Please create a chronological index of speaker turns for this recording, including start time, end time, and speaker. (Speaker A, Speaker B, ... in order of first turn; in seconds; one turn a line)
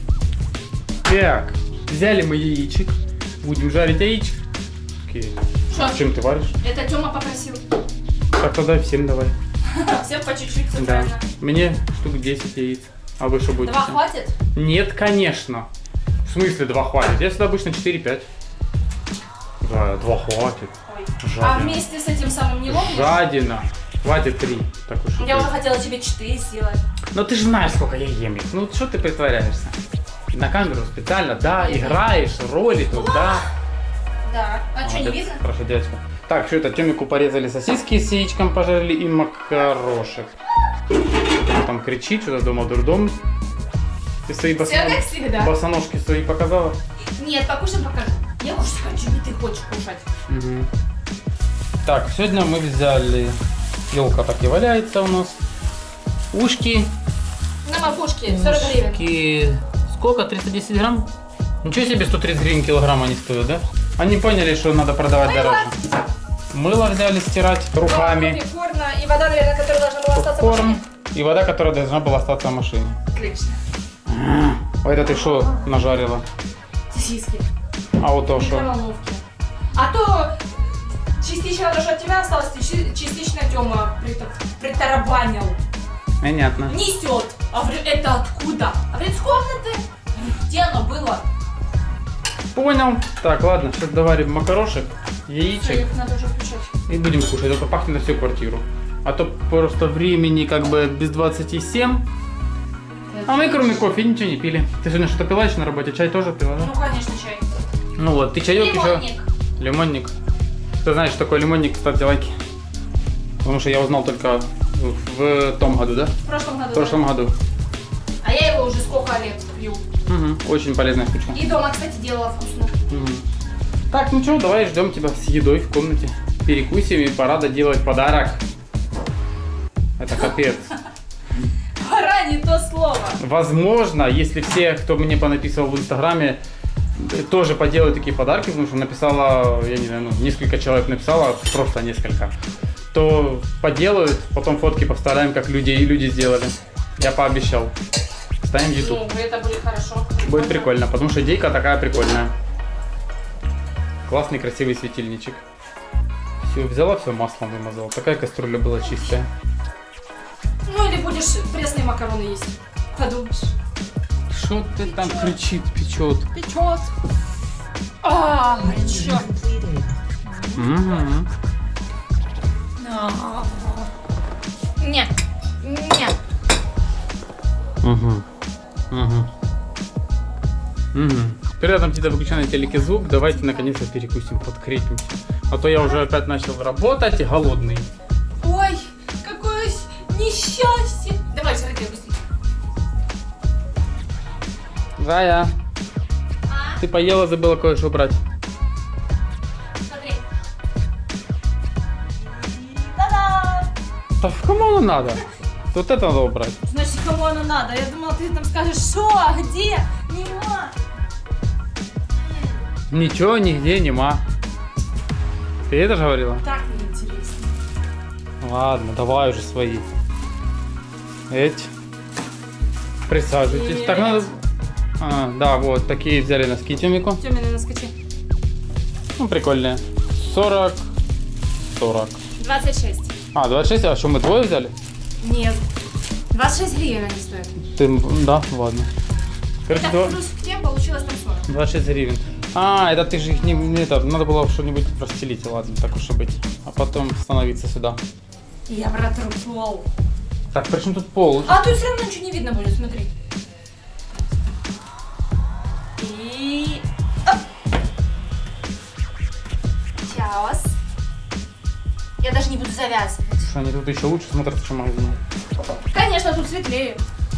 Speaker A: 1.1-4.4
Speaker A: 5.0-6.5
Speaker B: 5.7-6.0
Speaker B: 6.6-7.6
Speaker A: 8.3-9.3
Speaker B: 9.7-11.2
Speaker A: 10.8-14.0
Speaker B: 13.6-14.3
Speaker A: 14.5-15.7
Speaker A: 16.2-18.3
Speaker A: 19.6-21.8
Speaker B: 20.9-23.2
Speaker A: 22.7-25.5
Speaker B: 25.2-26.8
Speaker A: 27.1-29.8
Speaker A: 30.3-33.4
Speaker B: 31.6-32.0
Speaker B: 32.9-33.5
Speaker B: 34.2-35.4
Speaker A: 34.8-40.3
Speaker A: 41.4-43.2
Speaker A: 44.3-46.8
Speaker B: 44.6-45.5
Speaker B: 47.2-50.0
Speaker A: 50.3-50.7
Speaker A: 51.8-53.4
Speaker A: 53.9-55.4
Speaker A: 56.3-56.9
Speaker B: 57.6-59.0
Speaker A: 58.3-61.1
Speaker A: 61.6-65.7
Speaker B: 65.2-65.8
Speaker A: 66.5-68.4
Speaker B: 67.8-70.8
Speaker A: 70.1-73.0
Speaker B: 73.1-73.6
Speaker A: 74.1-76.2
Speaker B: 75.0-75.6
Speaker B: 76.9-77.5
Speaker A: 78.0-78.7
Speaker B: 78.3-79.2
Speaker B: 79.7-85.6
Speaker A: 86.2-86.7
Speaker B: 86.6-91.3
Speaker A: 92.5-95.8
Speaker B: 95.5-96.7
Speaker A: 96.9-102.1
Speaker B: 103.1-103.9
Speaker A: 103.2-106.7
Speaker B: 106.5-107.4
Speaker A: 108.0-109.0
Speaker B: 108.5-109.2
Speaker A: 109.6-110.1
Speaker A: 110.8-112.3
Speaker A: 113.4-116.1
Speaker B: 116.2-117.0
Speaker A: 116.7-117.3
Speaker B: 118.2-119.8
Speaker A: 120.1-121.4
Speaker B: 121.3-122.7
Speaker A: 122.9-123.2
Speaker A: 123.9-128.4
Speaker A: 130.0-130.7
Speaker B: 131.8-133.2
Speaker A: 133.2-136.4
Speaker A: 136.9-142.3
Speaker A: 142.9-147.7
Speaker A: 148.4-149.0
Speaker B: 148.6-150.7
Speaker A: 150.2-152.3
Speaker A: 154.1-155.4
Speaker A: 156.4-159.3
Speaker B: 160.7-163.5
Speaker A: 164.3-166.3
Speaker B: 164.8-165.4
Speaker B: 166.3-166.9
Speaker B: 168.0-169.7
Speaker B: 170.2-171.0
Speaker A: 170.6-171.3
Speaker B: 172.8-173.9
Speaker B: 174.8-175.1
Speaker B: 175.6-176.2
Speaker A: 177.8-178.2
Speaker A: 178.9-179.3
Speaker A: 180.9-187.9
Speaker B: 182.4-183.7
Speaker B: 188.4-192.2
Speaker A: 195.0-195.5
Speaker B: 196.5-196.8
Speaker A: 196.8-198.2
Speaker B: 199.8-200.2
Speaker B: 202.2-203.7
Speaker A: 204.2-206.6
Speaker B: 206.6-210.7
Speaker A: 212.9-214.2
Speaker A: 215.7-216.4
Speaker B: 216.4-217.5
Speaker A: 218.4-219.8
Speaker A: 221.3-221.7
Speaker A: 223.1-224.3
Speaker B: 223.4-224.4
Speaker A: 225.0-227.2
Speaker B: 227.2-227.9
Speaker A: 229.2-230.8
Speaker A: 231.8-232.2
Speaker B: 232.4-233.1
Speaker A: 233.3-234.7
Speaker B: 235.2-235.6
Speaker B: 236.3-237.6
Speaker A: 237.6-238.9
Speaker A: 239.7-240.2
Speaker B: 239.7-241.5
Speaker A: 241.5-248.0
Speaker B: 248.7-249.9
Speaker A: 250.5-251.6
Speaker B: 251.4-253.1
Speaker B: 256.0-257.4
Speaker B: 260.0-260.7
Speaker B: 262.2-263.5
Speaker A: 263.4-265.2
Speaker B: 265.7-267.0